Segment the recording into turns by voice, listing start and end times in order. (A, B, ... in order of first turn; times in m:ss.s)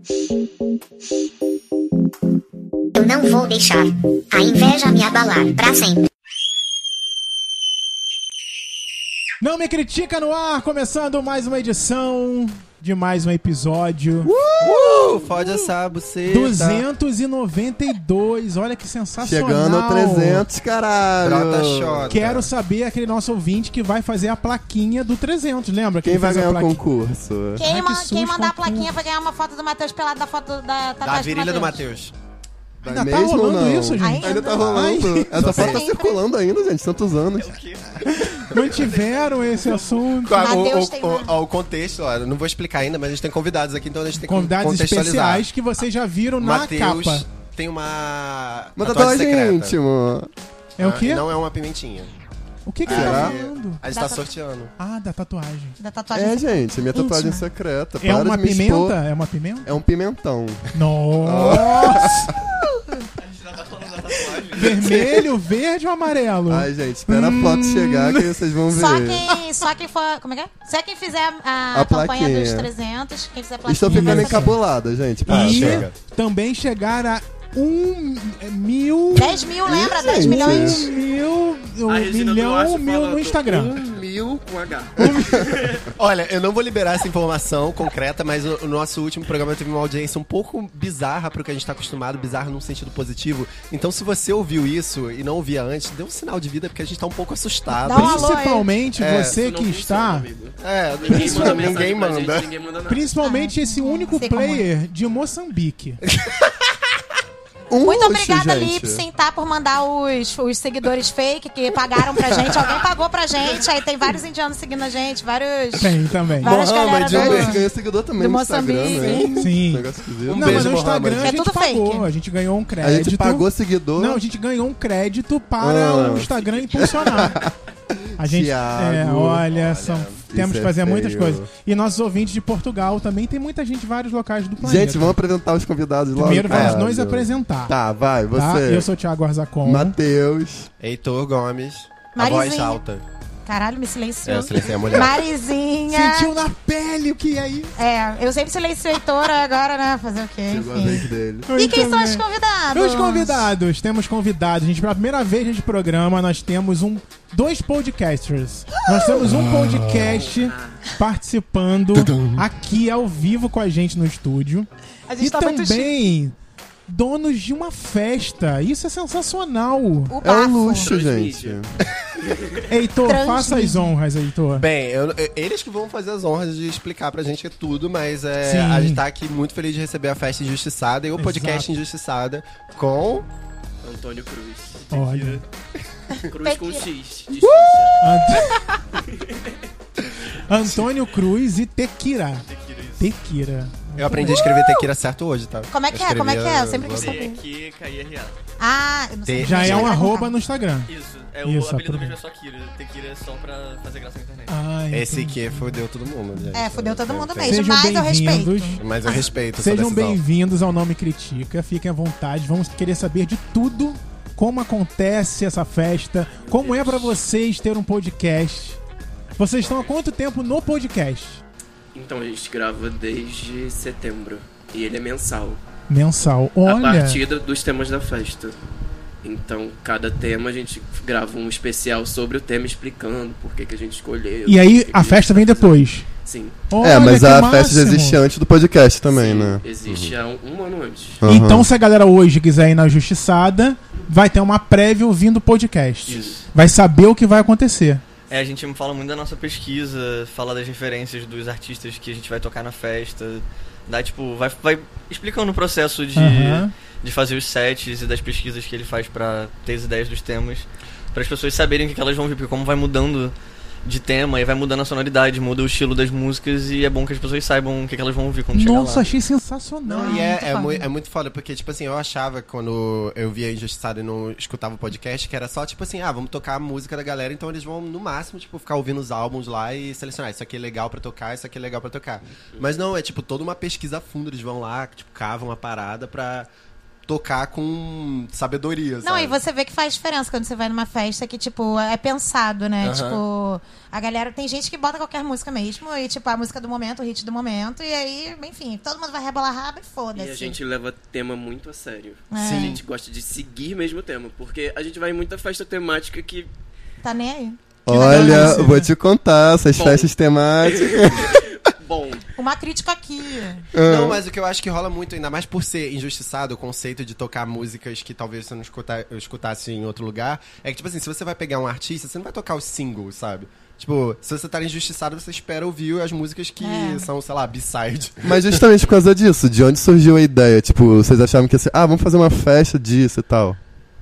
0:03.0-0:06.1 A
0:09.4-0:14.3 B
0:14.2-0:15.3 C
0:14.6-0:16.8 D
0:16.3-0:20.4 B
0:19.2-0:22.2 C
0:21.2-0:22.5 D
0:22.1-0:26.8 B
0:26.0-0:27.6 C
0:27.6-0:31.8 E
0:27.6-0:29.0 B
0:31.0-0:32.1 D
0:32.8-0:37.6 C
0:32.8-0:35.6 B
0:34.0-0:34.8 E
0:34.8-0:35.9 D
0:35.5-0:36.2 E
0:37.4-0:40.1 F
0:38.1-0:40.6 B
0:40.2-0:45.5 D
0:40.4-0:41.3 E
0:44.1-0:47.2 B
0:46.4-0:49.8 D
0:48.8-0:50.3 C
0:50.8-0:51.2 B
0:50.8-0:52.1 D
0:52.7-0:53.8 B
0:52.8-0:54.7 D
0:52.9-0:53.4 C
0:53.9-0:54.3 E
0:54.8-0:55.8 B
0:55.8-0:57.4 E
0:56.1-0:59.0 C
0:58.0-0:59.7 B
0:59.6-1:02.3 C
1:00.7-1:02.4 B
1:03.2-1:05.0 F
1:04.5-1:08.4 B
1:04.9-1:05.2 C
1:06.5-1:09.3 C
1:08.7-1:14.5 E
1:11.7-1:12.7 C
1:13.7-1:15.9 C
1:13.8-1:14.6 B
1:15.3-1:15.9 D
1:15.3-1:23.7 B
1:19.1-1:20.9 E
1:19.6-1:20.9 C
1:21.9-1:25.9 G
1:25.0-1:25.5 B
1:25.9-1:38.3 D
1:37.8-1:38.7 E
1:37.8-1:40.3 B
1:38.9-1:39.4 D
1:39.3-1:43.1 G
1:40.6-1:42.5 D
1:41.1-1:41.6 B
1:42.9-1:46.0 B
1:43.2-1:44.7 E
1:46.1-1:46.7 D
1:47.7-1:49.1 C
1:47.7-1:59.5 E
1:55.8-1:56.5 B
1:56.4-2:00.8 C
1:56.5-1:57.5 D
1:57.1-1:57.4 B
1:58.9-1:59.3 D
1:59.4-2:07.4 B
2:00.2-2:01.4 D
2:01.2-2:02.1 E
2:02.8-2:04.2 C
2:05.6-2:09.5 C
2:06.7-2:07.3 G
2:08.2-2:15.2 B
2:09.5-2:10.2 D
2:10.1-2:11.5 C
2:14.6-2:18.9 C
2:16.2-2:17.7 B
2:16.5-2:16.8 D
2:18.3-2:20.0 B
2:19.6-2:20.7 C
2:20.8-2:23.0 D
2:22.1-2:22.8 E
2:23.5-2:26.3 E
2:24.2-2:25.2 D
2:25.9-2:27.7 B
2:27.8-2:33.5 E
2:30.5-2:31.5 C
2:31.5-2:44.7 B
2:39.2-2:40.2 D
2:40.0-2:40.8 G
2:41.9-2:42.4 D
2:45.1-2:46.1 E
2:45.2-2:46.3 B
2:46.9-2:50.2 B
2:50.1-2:50.9 E
2:50.2-2:51.8 C
2:50.8-2:51.6 G
2:52.2-2:52.7 G
2:52.7-2:54.7 B
2:53.0-2:54.0 E
2:54.6-3:03.3 D
2:58.4-2:59.0 B
3:01.2-3:01.7 B
3:03.8-3:05.4 G
3:04.9-3:05.4 B
3:06.3-3:08.0 G
3:06.4-3:06.8 E
3:08.0-3:08.5 B
3:08.4-3:08.7 E
3:09.0-3:09.6 G
3:10.5-3:14.5 B
3:10.6-3:10.9 D
3:12.4-3:13.1 F
3:14.0-3:17.2 D
3:14.3-3:14.7 E
3:15.7-3:17.4 E
3:16.9-3:18.4 F
3:18.6-3:20.4 E
3:19.2-3:20.0 D
3:19.4-3:20.9 B
3:20.9-3:24.5 F
3:21.4-3:22.2 B
3:24.5-3:25.8 B
3:24.9-3:27.6 D
3:26.5-3:29.2 E
3:27.4-3:28.8 B
3:28.8-3:30.2 D
3:29.0-3:29.4 G
3:29.6-3:38.8 B
3:36.4-3:37.2 G
3:39.4-3:41.4 B
3:41.9-3:45.6 G
3:45.9-3:47.2 B
3:46.7-3:48.6 G
3:49.2-3:56.6 G
3:54.5-3:56.1 B
3:56.7-3:58.2 B
3:56.8-3:59.6 C
3:59.1-4:01.2 G
3:59.9-4:00.2 D
4:01.2-4:01.7 C
4:01.3-4:08.0 B
4:06.1-4:06.4 G
4:06.1-4:06.4 F
4:08.3-4:29.1 F
4:16.2-4:16.7 B
4:28.5-4:30.3 B
4:29.9-4:46.5 D
4:30.0-4:30.9 E
4:47.1-4:49.4 D
4:49.0-5:00.6 E
4:52.8-4:53.2 D
5:00.2-5:06.5 G
5:02.3-5:02.8 E
5:02.4-5:02.8 D
5:07.0-5:08.6 E
5:07.9-5:11.4 C
5:07.9-5:08.9 B
5:09.8-5:12.3 G
5:12.4-5:13.6 E
5:13.7-5:14.2 C
5:13.8-5:28.6 D
5:26.6-5:27.1 E
5:28.2-5:33.6 C